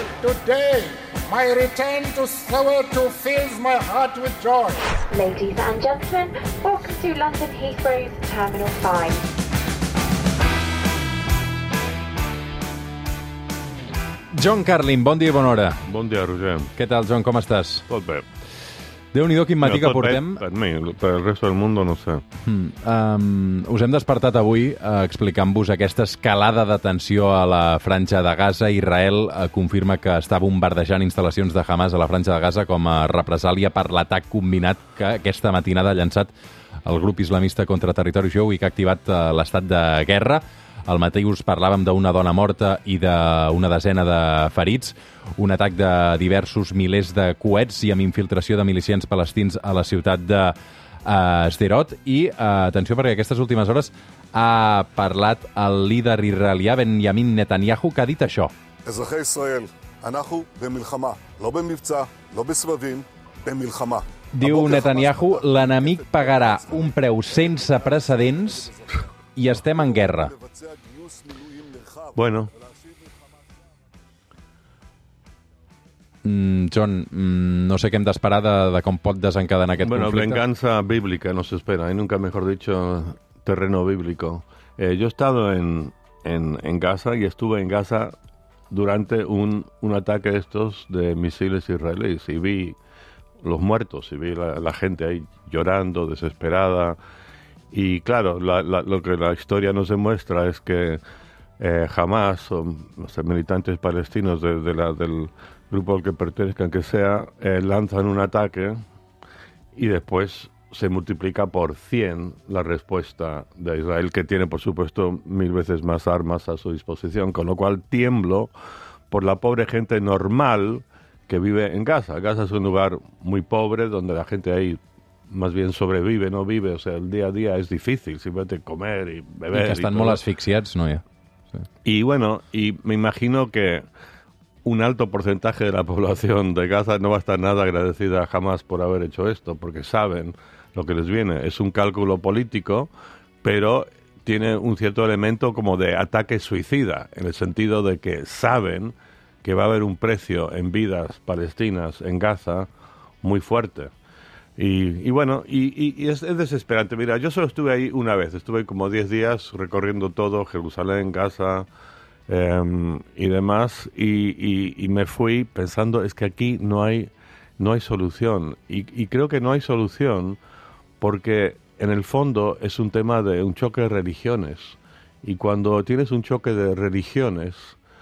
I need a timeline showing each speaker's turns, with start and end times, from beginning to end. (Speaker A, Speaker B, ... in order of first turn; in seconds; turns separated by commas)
Speaker A: 0.2-4.9, Speaker B: 5.0-9.2, Speaker C: 14.3-15.8, Speaker D: 15.9-16.7, Speaker C: 16.8-17.8, Speaker D: 17.9-18.2, Speaker C: 19.1-20.4, Speaker D: 19.6-22.2, Speaker C: 22.4-36.3, Speaker C: 36.8-58.5, Speaker E: 58.8-69.0, Speaker C: 64.3-68.7, Speaker C: 69.3-70.3, Speaker E: 69.7-72.8, Speaker D: 72.2-72.5, Speaker C: 76.2-80.4, Speaker D: 79.8-88.1, Speaker D: 88.7-92.8, Speaker D: 93.4-97.0, Speaker D: 97.7-101.0, Speaker D: 101.6-108.8, Speaker D: 109.8-118.5, Speaker D: 119.1-124.8, Speaker D: 125.3-130.2, Speaker C: 129.5-131.0, Speaker D: 131.8-133.8, Speaker D: 134.6-142.9, Speaker D: 143.4-152.7, Speaker D: 153.2-153.9, Speaker D: 154.6-161.7, Speaker D: 162.3-170.4, Speaker D: 171.0-177.8